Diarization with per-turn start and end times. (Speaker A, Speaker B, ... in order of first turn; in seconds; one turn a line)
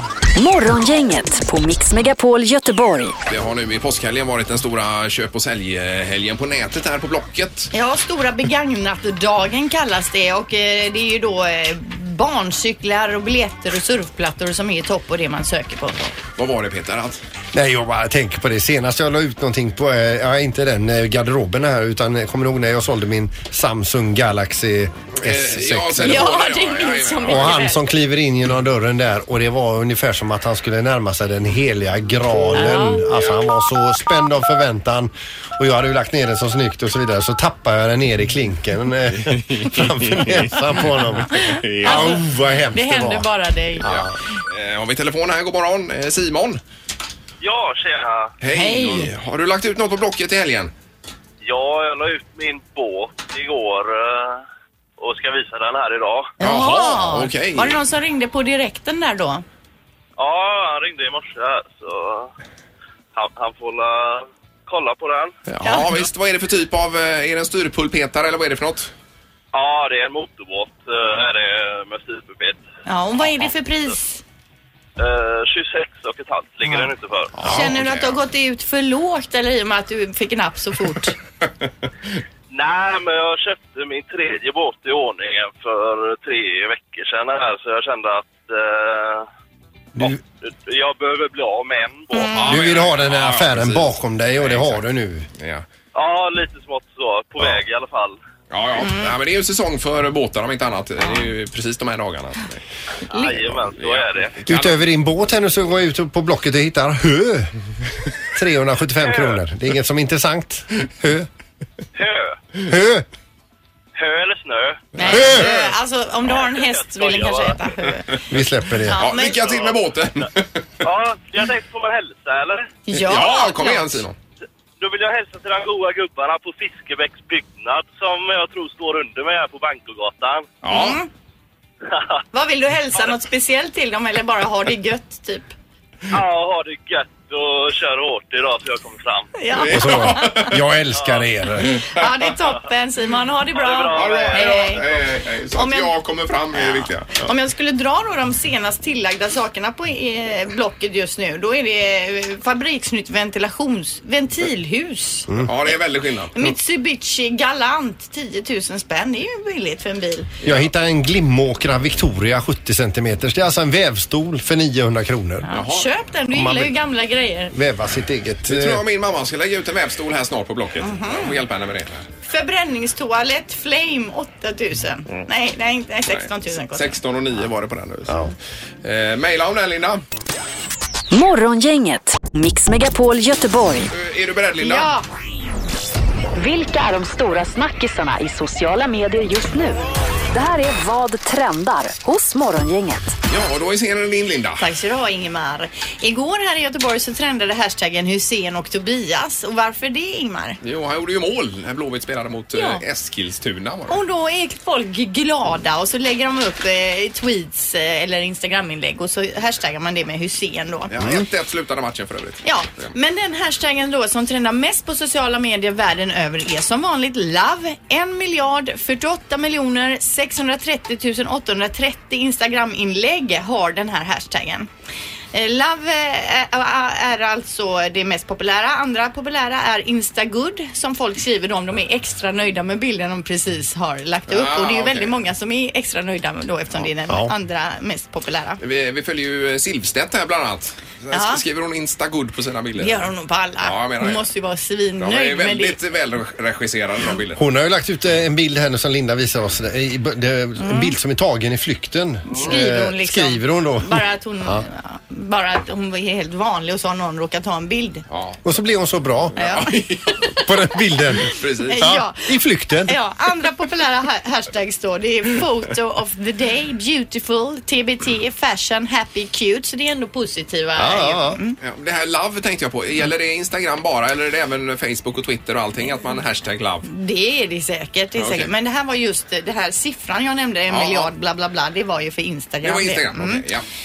Speaker A: 0.3-3.1
Speaker B: 3.3-7.7
Speaker C: 7.7-16.0
Speaker B: 16.0-17.2
Speaker D: 17.5-26.3
Speaker B: 25.2-27.6
Speaker C: 26.0-27.8
Speaker D: 27.2-43.3
Speaker C: 32.5-33.0
Speaker B: 39.8-40.5
Speaker C: 41.3-43.9
Speaker B: 41.6-42.2
Speaker D: 43.8-44.1
Speaker B: 43.8-46.6
Speaker E: 47.4-48.3
Speaker B: 48.4-50.7
Speaker C: 48.5-49.1
Speaker E: 51.4-54.4
Speaker E: 55.0-56.3
Speaker C: 56.4-59.4
Speaker B: 56.4-57.8
Speaker E: 60.2-62.3
Speaker E: 63.1-65.3
Speaker B: 65.5-68.9
Speaker C: 65.6-66.0
Speaker E: 69.5-72.6
Speaker C: 72.8-74.2
Speaker E: 75.0-77.3
Speaker B: 77.4-78.2
Speaker C: 77.4-81.2
Speaker E: 82.5-89.3
Speaker E: 90.0-92.6
Speaker C: 92.1-92.5
Speaker B: 92.3-94.8
Speaker D: 92.5-95.3
Speaker B: 95.4-95.6
Speaker E: 95.9-98.2
Speaker B: 98.5-102.6
Speaker C: 98.8-99.1
Speaker E: 103.1-104.4
Speaker B: 103.5-104.8
Speaker D: 104.5-107.5
Speaker D: 108.3-111.3
Speaker E: 109.0-109.3
Speaker E: 111.9-112.4
Speaker D: 112.6-113.0
Speaker E: 114.0-114.9
Speaker B: 115.0-115.6
Speaker C: 115.0-118.2
Speaker D: 115.1-115.5
Speaker E: 116.3-117.6
Speaker D: 118.3-119.0
Speaker C: 118.8-119.7
Speaker B: 118.9-120.6
Speaker E: 120.8-122.7
Speaker C: 122.9-124.0
Speaker B: 122.9-124.1
Speaker E: 124.8-130.5
Speaker B: 130.6-131.0
Speaker C: 130.7-131.1
Speaker C: 132.3-135.5
Speaker E: 136.1-139.3
Speaker C: 139.3-140.5
Speaker B: 139.5-140.5
Speaker D: 139.7-141.8
Speaker E: 140.9-141.2
Speaker C: 141.9-144.9
Speaker E: 143.5-144.7
Speaker B: 143.9-147.2
Speaker C: 145.5-145.9
Speaker C: 146.5-155.3
Speaker B: 155.4-156.5
Speaker C: 156.3-160.3
Speaker D: 160.4-165.5
Speaker C: 165.4-167.5
Speaker B: 165.5-165.9
Speaker D: 166.3-166.7
Speaker D: 167.5-168.8
Speaker B: 168.4-172.1
Speaker C: 170.8-171.4
Speaker C: 172.2-177.0
Speaker B: 176.1-178.3
Speaker B: 178.8-180.0
Speaker A: 181.1-183.9
Speaker B: 183.9-184.9
Speaker C: 184.6-185.0
Speaker A: 186.3-193.1
Speaker B: 193.3-194.6
Speaker C: 194.6-200.6
Speaker B: 200.6-204.0
Speaker C: 202.5-202.8
Speaker C: 203.9-210.9
Speaker B: 210.9-212.9
Speaker C: 212.4-224.7
Speaker C: 225.3-238.6
Speaker B: 234.3-235.1
Speaker B: 238.6-243.1
Speaker C: 241.1-241.4
Speaker C: 242.8-245.8
Speaker B: 243.6-244.3
Speaker B: 245.0-247.4
Speaker D: 247.4-254.6
Speaker C: 250.6-250.9
Speaker C: 252.3-258.0
Speaker B: 258.1-258.4
Speaker D: 258.4-259.4
Speaker B: 259.3-260.2
Speaker C: 259.4-259.8
Speaker D: 260.4-263.0
Speaker B: 261.3-261.9
Speaker C: 261.7-262.3
Speaker C: 262.9-271.6
Speaker D: 270.8-271.4
Speaker B: 271.6-276.9
Speaker C: 276.9-283.4
Speaker B: 278.2-278.5
Speaker B: 280.7-281.1
Speaker B: 282.6-283.6